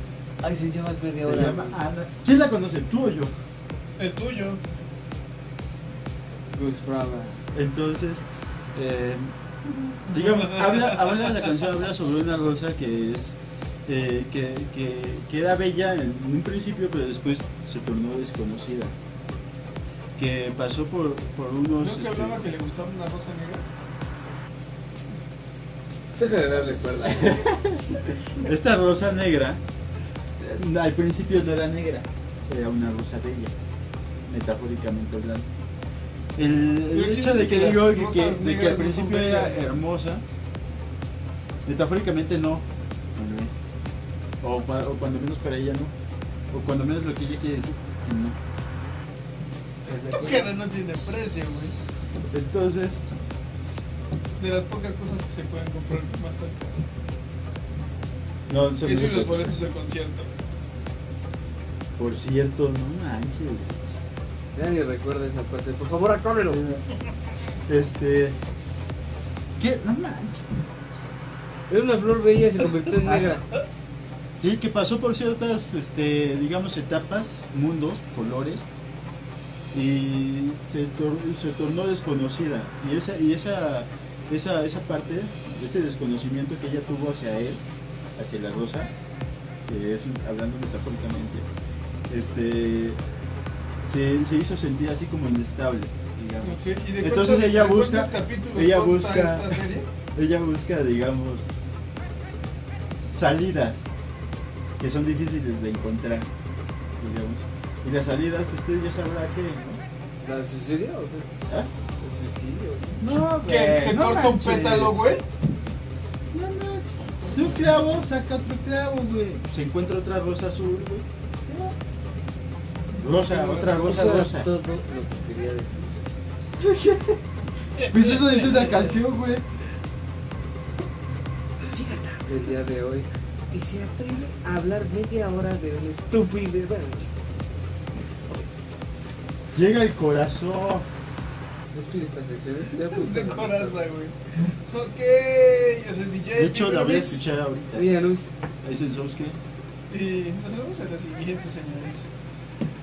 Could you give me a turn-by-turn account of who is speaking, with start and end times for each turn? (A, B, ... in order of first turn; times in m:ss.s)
0:00.4-0:01.8 A
0:01.2-0:03.3 B
0:04.0-0:04.6 C
0:06.5-0:07.4 A
0:07.5-0:18.9 B
0:20.2-0:22.4 B
0:21.8-0:23.6 C
0:26.2-0:27.5 A
0:27.0-0:29.6 B
0:30.4-0:33.5 B
0:34.2-0:35.5 B
0:36.4-0:40.2 B
0:36.9-0:39.7 C
0:41.6-0:43.7 B
0:44.4-0:45.9 B
0:46.5-0:48.4 B
0:49.8-0:50.5 B
0:50.1-0:51.8 C
0:52.3-0:53.0 B
0:54.4-0:56.8 C
0:58.5-0:59.5 B
0:58.8-1:00.3 C
1:02.0-1:03.8 B
1:04.6-1:06.6 A
1:06.5-1:06.8 B
1:07.7-1:08.4 B
1:09.6-1:10.6 B
1:11.7-1:13.5 A
1:13.0-1:13.4 B
1:14.4-1:18.6 B
1:19.7-1:27.6 B
1:28.2-1:28.9 B
1:29.6-1:31.5 B
1:32.1-1:33.2 B
1:33.9-1:41.5 B
1:36.4-1:39.9 C
1:43.1-1:43.9 B
1:44.8-1:46.3 B
1:47.0-1:49.8 B
1:50.2-1:51.3 A
1:52.0-1:53.0 A
1:53.0-1:55.1 B
1:53.4-1:55.2 C
1:56.3-2:01.6 B
2:03.0-2:04.5 B
2:03.1-2:04.0 C
2:03.8-2:06.0 A
2:06.6-2:07.2 B
2:07.8-2:08.6 C
2:07.9-2:09.4 B
2:08.4-2:08.9 A
2:11.7-2:17.0 A
2:19.5-2:20.9 B
2:21.7-2:23.7 A
2:22.9-2:27.3 C
2:26.3-2:27.9 B
2:27.7-2:28.3 A
2:28.6-2:29.4 B
2:29.9-2:32.1 C